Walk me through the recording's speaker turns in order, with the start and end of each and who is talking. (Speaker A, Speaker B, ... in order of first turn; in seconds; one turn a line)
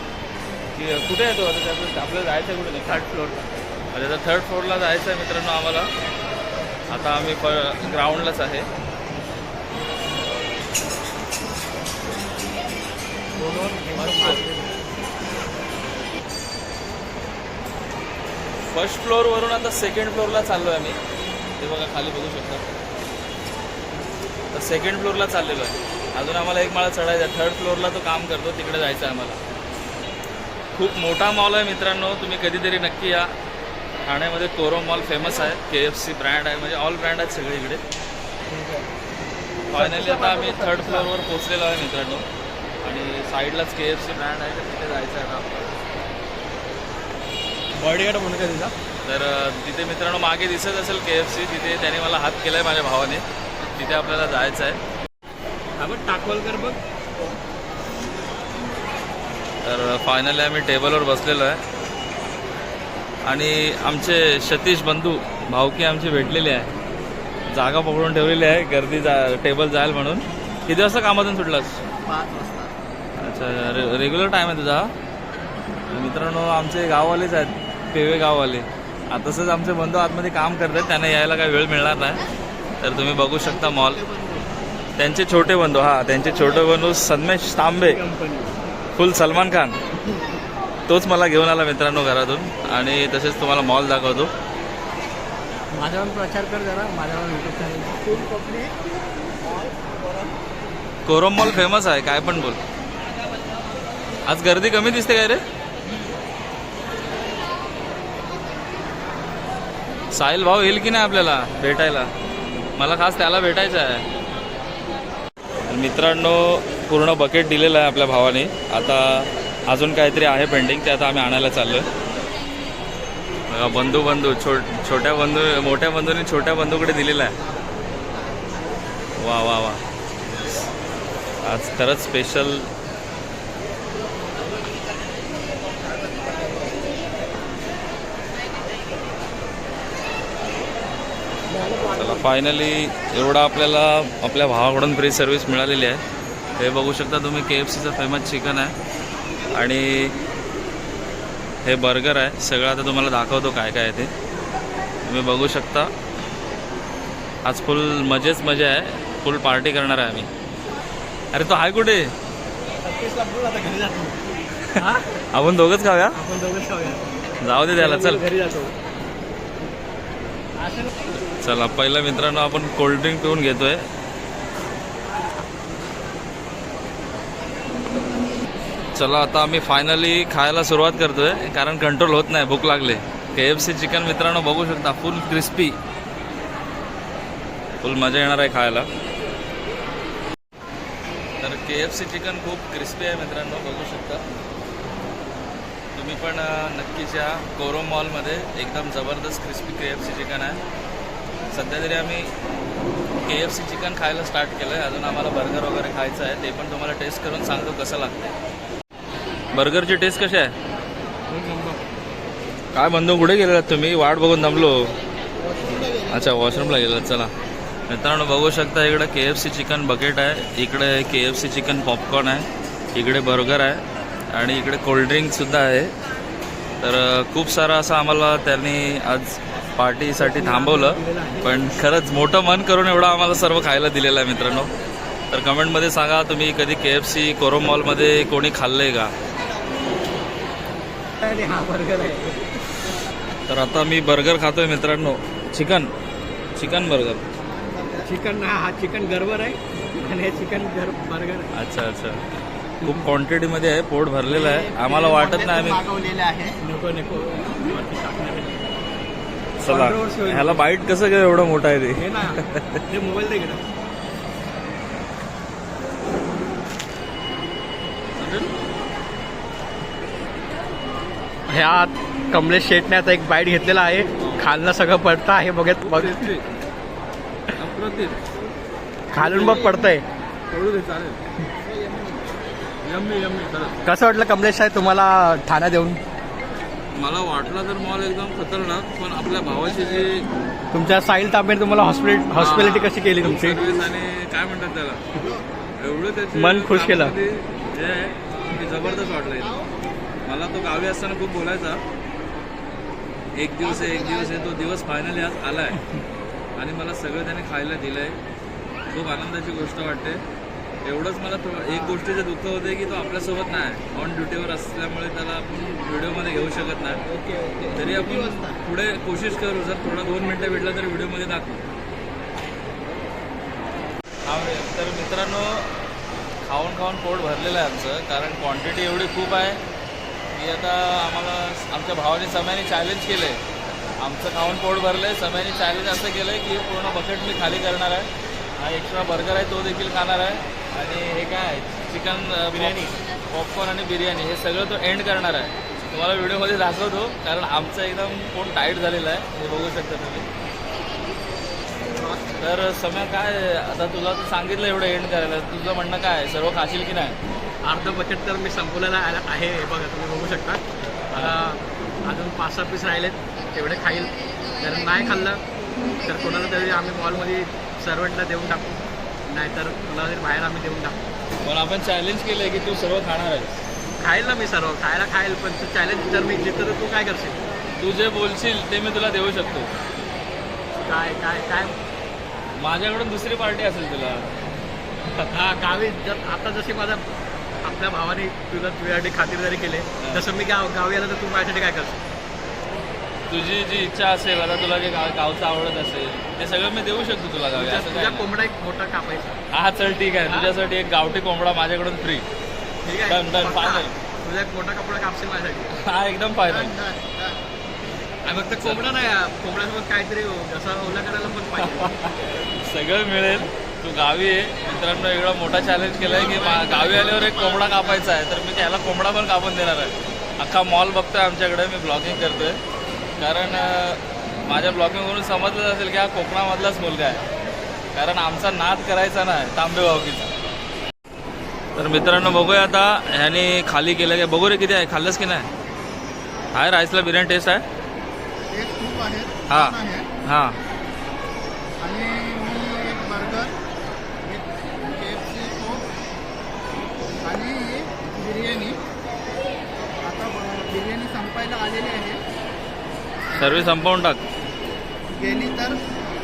Speaker A: 0.8-3.0
Speaker B: 2.8-3.5
Speaker A: 3.9-5.9
Speaker A: 6.9-8.7
Speaker B: 13.4-14.7
Speaker A: 18.7-21.0
Speaker A: 21.6-22.6
Speaker A: 24.5-29.4
Speaker A: 30.7-33.3
Speaker A: 34.0-37.8
Speaker B: 38.5-38.9
Speaker A: 39.7-42.3
Speaker B: 39.8-41.1
Speaker A: 42.8-45.7
Speaker B: 47.8-48.7
Speaker A: 49.0-53.2
Speaker A: 53.7-54.8
Speaker B: 55.8-56.8
Speaker A: 59.6-61.6
Speaker A: 63.3-66.7
Speaker A: 67.5-71.8
Speaker C: 72.0-72.7
Speaker A: 73.2-74.9
Speaker A: 75.9-82.2
Speaker A: 82.8-84.0
Speaker C: 83.4-84.5
Speaker A: 85.0-88.0
Speaker B: 87.8-88.5
Speaker A: 88.9-89.8
Speaker A: 90.9-94.3
Speaker B: 95.7-98.7
Speaker C: 99.4-100.3
Speaker A: 101.1-102.6
Speaker A: 104.3-105.4
Speaker A: 110.1-112.1
Speaker A: 112.8-114.0
Speaker A: 115.7-121.9
Speaker A: 123.5-127.3
Speaker A: 129.2-129.8
Speaker A: 130.3-130.7
Speaker A: 131.4-132.7
Speaker B: 141.6-142.1
Speaker A: 141.8-146.0
Speaker A: 146.6-148.7
Speaker A: 149.5-150.2
Speaker A: 151.6-154.1
Speaker A: 155.1-155.9
Speaker A: 157.4-160.3
Speaker A: 161.3-162.1
Speaker B: 162.8-164.2
Speaker B: 164.8-165.1
Speaker A: 165.3-166.2
Speaker B: 166.1-167.1
Speaker A: 167.4-168.2
Speaker B: 167.7-168.7
Speaker B: 170.6-170.9
Speaker A: 171.3-173.9
Speaker A: 178.9-185.8
Speaker A: 187.8-188.9
Speaker A: 191.4-194.2
Speaker A: 195.9-200.6
Speaker A: 201.5-202.3
Speaker A: 203.3-208.2
Speaker A: 209.5-210.5
Speaker B: 211.3-211.8
Speaker A: 212.7-214.9
Speaker C: 215.4-216.8
Speaker A: 216.1-217.3
Speaker A: 217.9-225.9
Speaker A: 226.8-234.7
Speaker B: 230.2-231.6
Speaker A: 235.3-239.1
Speaker C: 239.3-240.2
Speaker B: 241.2-242.5
Speaker A: 243.5-245.9
Speaker A: 246.6-247.3
Speaker C: 247.4-248.1
Speaker B: 248.0-251.5
Speaker A: 251.5-252.2
Speaker A: 252.8-255.8
Speaker C: 254.2-256.6
Speaker B: 256.6-258.7
Speaker A: 259.6-262.8
Speaker B: 259.7-260.6
Speaker B: 262.0-263.6
Speaker A: 268.2-268.5
Speaker B: 271.5-276.3
Speaker A: 274.2-274.5
Speaker A: 275.8-276.5
Speaker A: 277.5-278.2
Speaker B: 279.1-280.0
Speaker A: 279.2-279.9
Speaker A: 280.5-281.2
Speaker C: 281.6-282.6
Speaker A: 282.8-283.8
Speaker B: 283.9-286.0
Speaker A: 286.9-290.3
Speaker C: 289.7-290.0
Speaker B: 290.7-293.6
Speaker A: 292.4-295.0
Speaker C: 295.2-295.4
Speaker A: 295.8-299.6
Speaker B: 296.3-297.1
Speaker C: 298.6-299.8
Speaker A: 300.3-301.8
Speaker A: 303.4-305.8
Speaker C: 303.6-304.7
Speaker A: 306.6-308.2
Speaker A: 308.9-310.2
Speaker A: 310.8-317.0
Speaker C: 311.7-312.0
Speaker C: 317.1-318.6
Speaker A: 317.7-321.6
Speaker A: 324.3-325.7
Speaker A: 326.4-329.6
Speaker A: 330.3-333.4
Speaker A: 334.0-350.3
Speaker B: 342.5-342.9
Speaker C: 352.0-352.3
Speaker A: 352.4-357.2
Speaker B: 357.6-360.6
Speaker B: 361.1-365.4
Speaker B: 365.9-371.0
Speaker A: 371.4-373.6
Speaker B: 374.0-377.4
Speaker A: 377.8-379.7
Speaker B: 380.8-381.8
Speaker A: 382.6-384.3
Speaker B: 385.2-387.1
Speaker B: 387.6-392.0
Speaker A: 393.3-398.3
Speaker B: 397.5-399.4
Speaker A: 399.5-402.3
Speaker B: 402.8-405.8
Speaker A: 403.1-403.9
Speaker A: 405.8-406.7
Speaker C: 406.4-407.5
Speaker B: 408.2-412.1
Speaker A: 408.6-408.8
Speaker A: 412.6-422.6
Speaker C: 416.0-418.1
Speaker A: 423.2-427.2
Speaker A: 427.9-430.3
Speaker A: 431.8-435.5
Speaker A: 436.5-437.6
Speaker C: 438.5-440.1
Speaker A: 439.5-440.6
Speaker C: 441.8-443.6
Speaker C: 444.2-445.8
Speaker C: 447.2-448.8
Speaker C: 450.0-452.2
Speaker A: 453.3-454.2
Speaker C: 453.4-453.6
Speaker C: 455.1-455.8